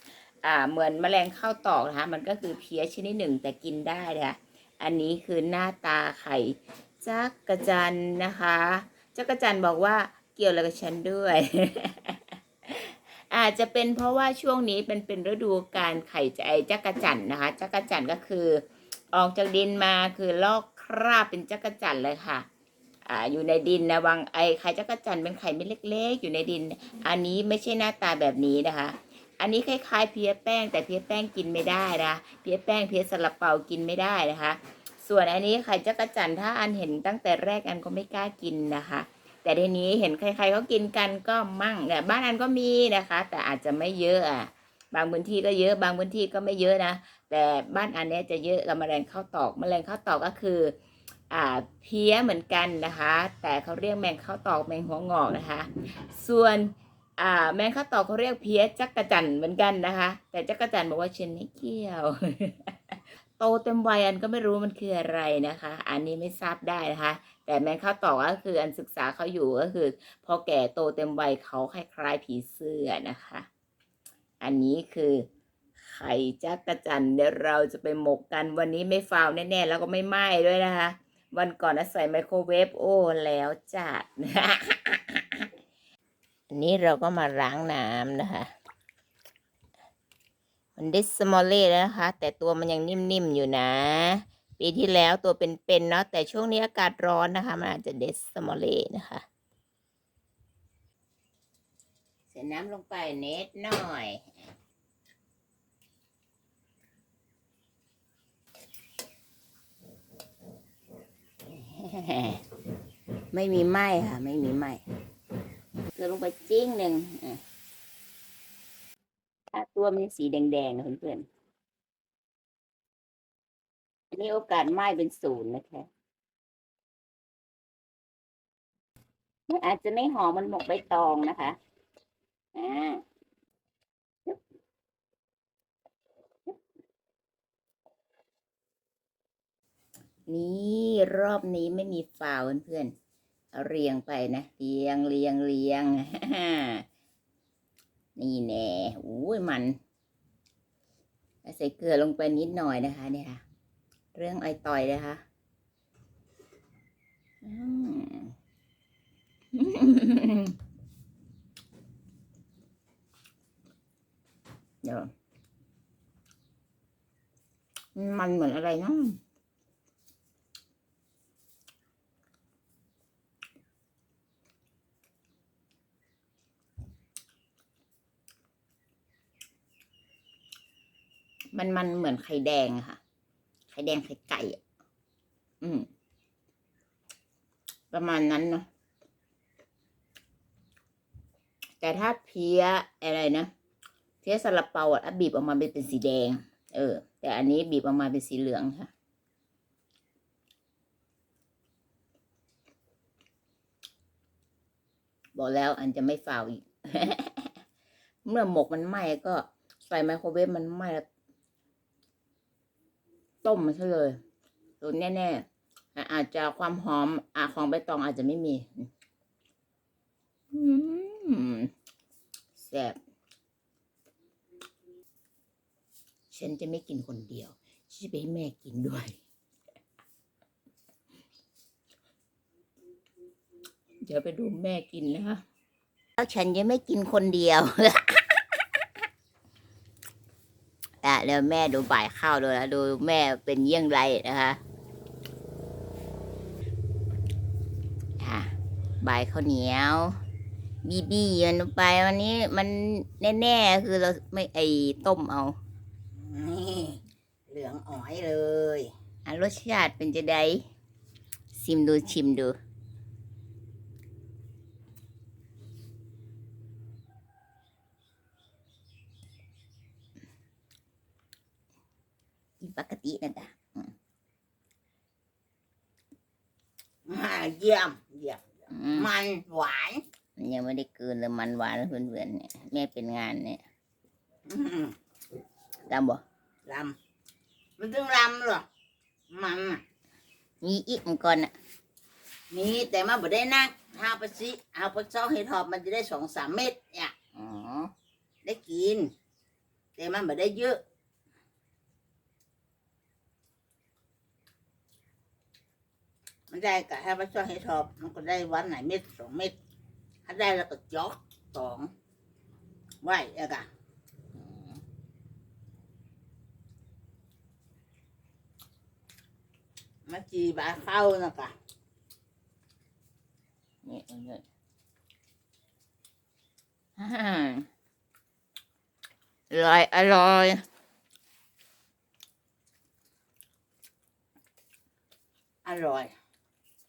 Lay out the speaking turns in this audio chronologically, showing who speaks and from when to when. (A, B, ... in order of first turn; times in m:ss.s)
0:00.4-0:22.5 A
0:23.1-0:50.8 A
0:51.3-1:13.5 A
1:14.4-1:15.3 A
1:15.8-1:25.5 A
1:26.5-1:28.5 A
1:30.8-1:39.2 A
1:42.3-1:44.3 A
1:51.5-1:52.4 A
1:53.3-1:54.8 A
1:56.0-1:57.4 A
1:59.5-2:01.3 A
2:04.1-2:05.9 A
2:09.5-2:11.6 A
2:12.6-2:13.0 A
2:20.3-2:22.9 A
2:23.5-2:26.8 A
2:28.2-2:29.8 A
2:31.4-2:33.4 A
2:34.1-2:35.2 A
2:37.4-2:38.3 A
2:39.6-2:40.6 A
2:44.8-2:45.1 A
2:48.0-2:49.2 A
3:01.5-3:03.0 A
3:03.7-3:04.6 A
3:05.6-3:05.9 A
3:07.9-3:08.6 A
3:11.8-3:13.5 A
3:14.2-3:18.9 A
3:25.4-3:27.5 A
3:28.3-3:31.0 A
3:33.4-3:34.2 A
3:34.8-3:35.4 A
3:36.0-3:38.9 A
3:40.5-3:41.7 A
3:42.6-3:43.0 A
3:46.3-3:49.2 A
3:54.0-3:55.4 A
3:56.2-3:58.8 A
4:01.0-4:04.6 A
4:08.2-4:10.2 A
4:10.8-4:15.6 A
4:16.2-4:18.9 B
4:19.3-4:20.6 A
4:21.5-4:22.6 A
4:32.6-4:33.9 A
4:37.1-4:40.0 B
4:38.7-4:39.1 A
4:40.4-4:43.6 A
4:44.5-4:45.0 B
4:45.9-4:46.2 A
4:46.7-4:47.0 B
4:47.8-4:48.6 B
4:49.3-4:49.8 B
4:50.6-4:51.5 A
4:52.5-4:57.1 B
4:57.4-4:57.9 A
4:58.4-4:59.1 B
5:00.0-5:00.8 B
5:06.5-5:09.6 B
5:10.2-5:11.9 B
5:13.0-5:13.7 B
5:14.4-5:14.7 A
5:20.1-5:21.5 B
5:23.8-5:24.4 A
5:27.0-5:27.7 A
5:29.5-5:30.6 A
5:35.6-5:36.1 B